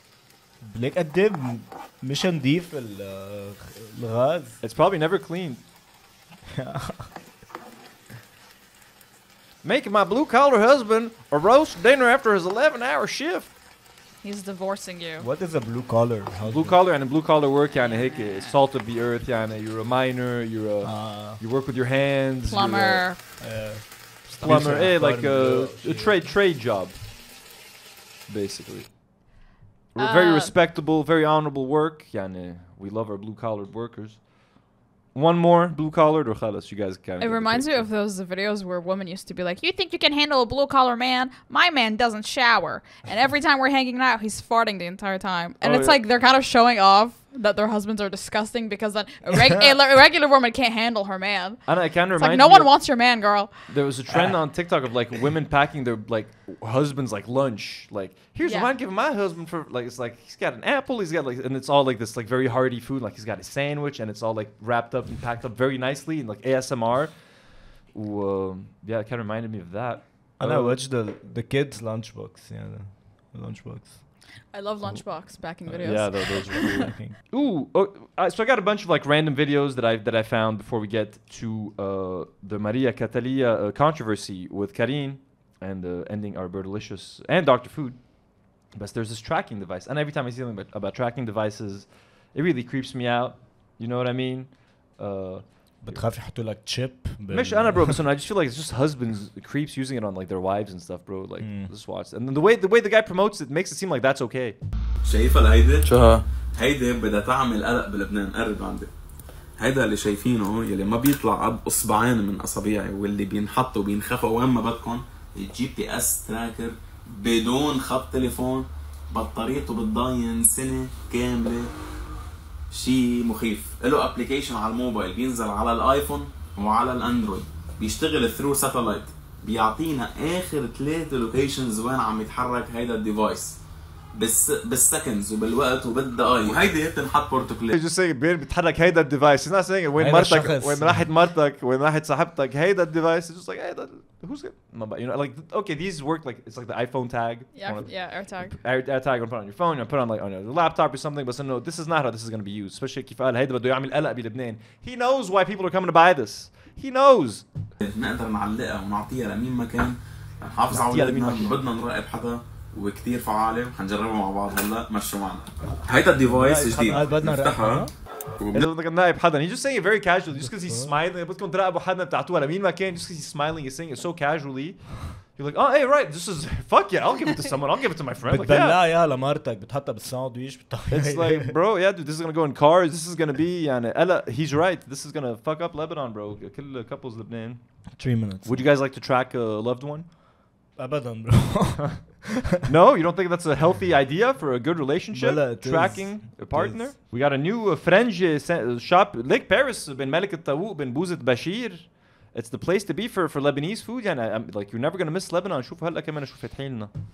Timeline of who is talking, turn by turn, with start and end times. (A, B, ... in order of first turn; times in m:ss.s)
0:00.6-0:04.6 A
0:04.6-0:05.6 B
0:06.6-0:07.1 A
0:09.6-0:13.5 B
0:14.2-0:15.3 C
0:15.2-0:16.8 A
0:16.4-0:23.0 B
0:17.8-0:18.5 C
0:20.8-0:21.4 A
0:22.5-0:23.2 C
0:23.4-0:26.3 A
0:24.4-0:27.0 B
0:28.3-0:29.0 B
0:30.0-0:34.3 B
0:30.0-0:30.5 C
0:35.1-0:37.9 B
0:37.2-0:51.6 C
0:45.6-0:46.0 B
0:51.7-0:52.7 B
0:52.2-0:53.5 C
0:53.7-1:07.2 B
0:54.1-0:54.4 A
0:58.4-0:58.7 C
1:07.9-1:10.8 B
1:10.4-1:14.1 A
1:14.5-1:16.9 C
1:14.9-1:17.2 A
1:15.8-1:28.0 B
1:28.7-1:36.0 B
1:35.8-1:38.0 A
1:37.3-1:44.6 B
1:41.4-1:41.7 A
1:45.0-1:48.9 D
1:49.6-2:01.7 D
2:02.7-2:13.5 D
2:14.2-2:17.7 D
2:17.7-2:37.5 B
2:20.0-2:21.1 A
2:27.5-2:28.6 C
2:37.8-2:47.9 D
2:40.8-2:41.6 B
2:46.3-2:47.1 B
2:46.4-2:47.9 A
2:48.4-2:48.7 D
2:48.5-2:58.8 B
2:50.4-2:51.0 A
2:58.3-3:01.5 A
3:00.9-3:07.6 B
3:08.0-3:08.6 A
3:08.4-3:10.1 B
3:10.8-3:12.1 A
3:12.7-3:26.9 B
3:15.1-3:17.0 A